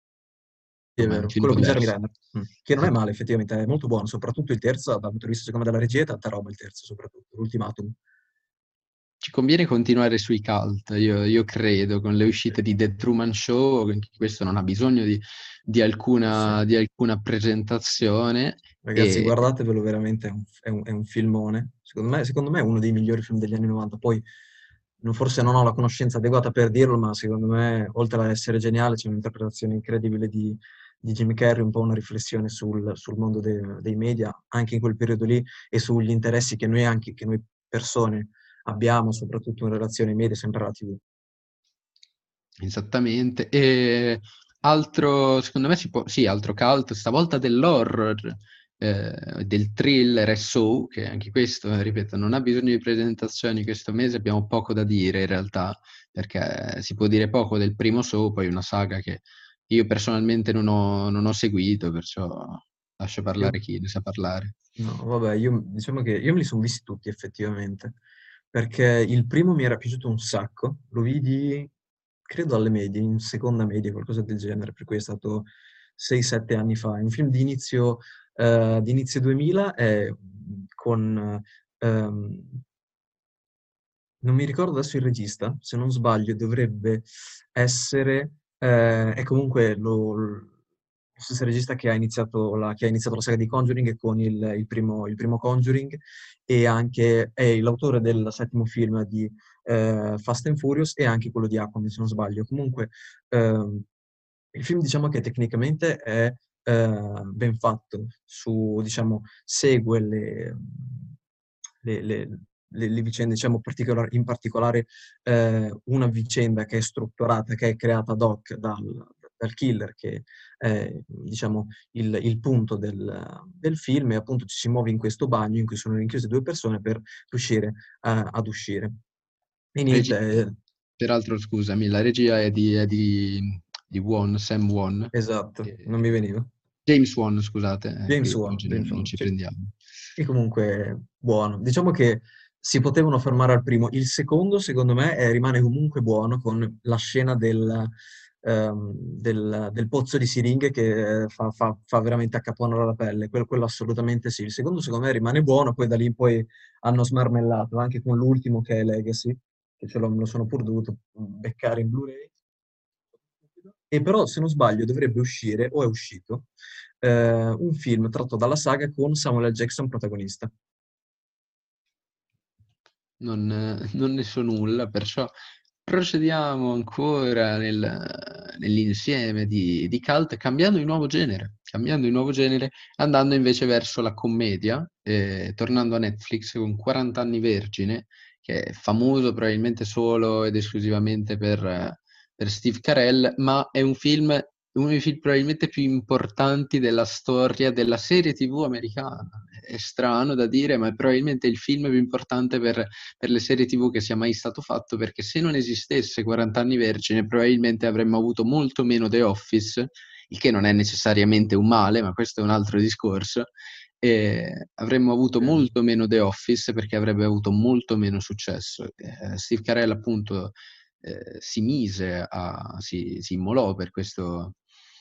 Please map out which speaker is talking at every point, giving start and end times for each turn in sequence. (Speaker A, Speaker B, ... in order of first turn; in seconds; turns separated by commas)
Speaker A: 0.9-8.0, Speaker B: 1.0-1.9, Speaker B: 9.2-19.4, Speaker A: 16.3-16.6, Speaker A: 18.8-24.2, Speaker A: 25.0-41.0, Speaker B: 42.6-64.5, Speaker A: 64.8-68.0, Speaker A: 68.5-71.7, Speaker A: 72.3-82.6, Speaker A: 84.2-90.5, Speaker A: 91.2-103.9, Speaker A: 104.5-111.2, Speaker A: 111.8-128.9, Speaker A: 129.7-130.6, Speaker B: 129.9-130.2, Speaker B: 131.0-135.1, Speaker A: 135.1-136.5, Speaker B: 136.8-139.7, Speaker A: 138.1-139.3, Speaker A: 140.2-147.9, Speaker A: 148.4-162.3, Speaker A: 163.6-166.5, Speaker A: 167.0-170.5, Speaker B: 173.2-175.3, Speaker B: 175.8-213.5, Speaker B: 214.0-224.6, Speaker A: 215.4-215.7